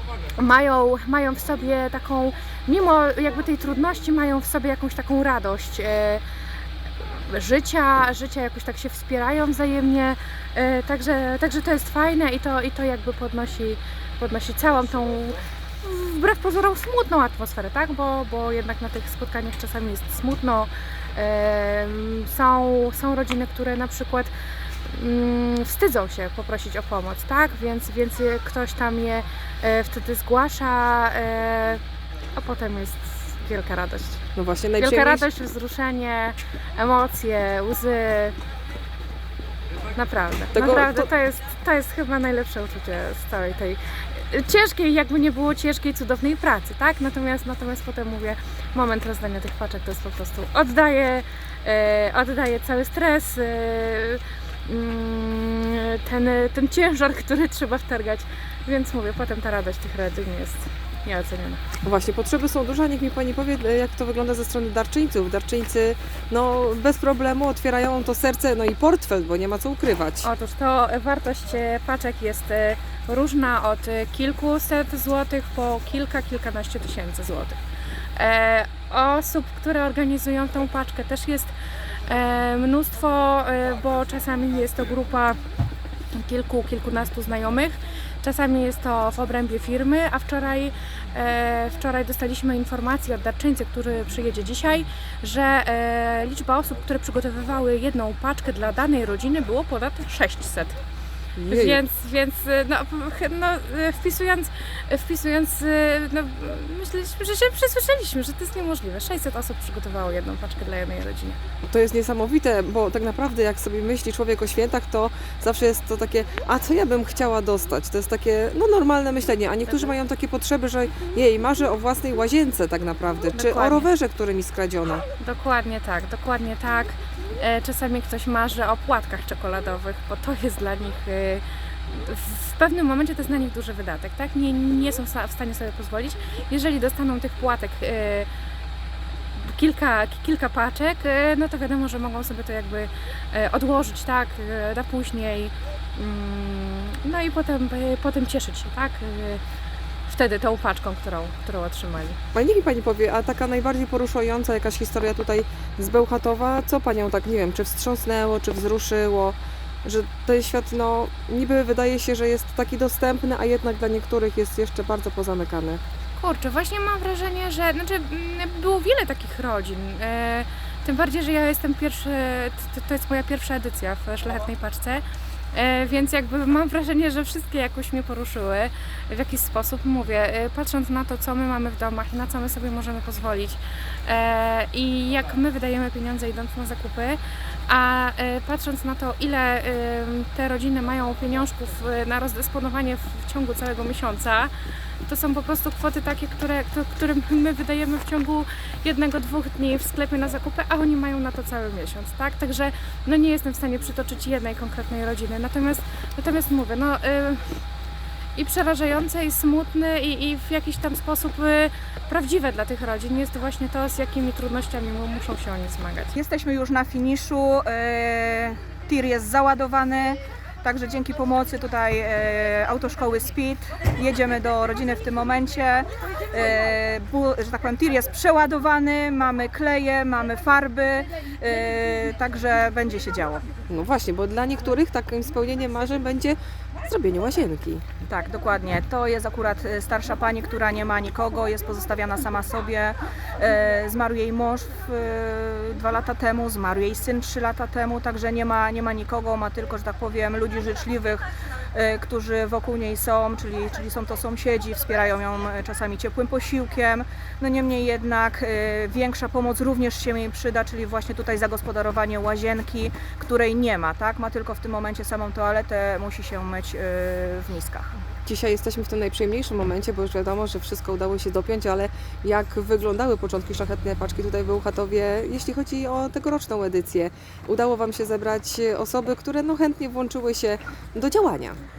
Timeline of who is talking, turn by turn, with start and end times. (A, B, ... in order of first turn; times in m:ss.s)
0:00.3-0:06.2 A
0:07.0-0:24.3 A
0:24.8-0:31.8 A
0:32.3-0:34.2 A
0:34.3-0:35.2 B
0:34.8-0:38.4 A
0:39.9-1:01.6 A
0:40.5-0:41.1 B
1:01.8-1:10.3 B
1:10.2-1:17.6 A
1:18.2-1:21.5 A
1:22.0-1:25.4 A
1:26.2-1:40.8 A
1:41.4-1:41.8 B
1:41.5-1:51.4 A
1:51.7-2:05.0 B
2:03.3-2:03.9 A
2:05.2-2:18.3 A
2:19.4-2:29.4 A
2:30.1-2:32.2 A
2:32.3-2:45.8 B
2:46.2-3:14.5 A
3:15.0-3:27.6 A
3:28.4-3:36.2 A
3:36.2-3:53.4 C
3:53.7-3:57.8 B
3:58.1-4:27.9 C
4:28.2-4:41.6 B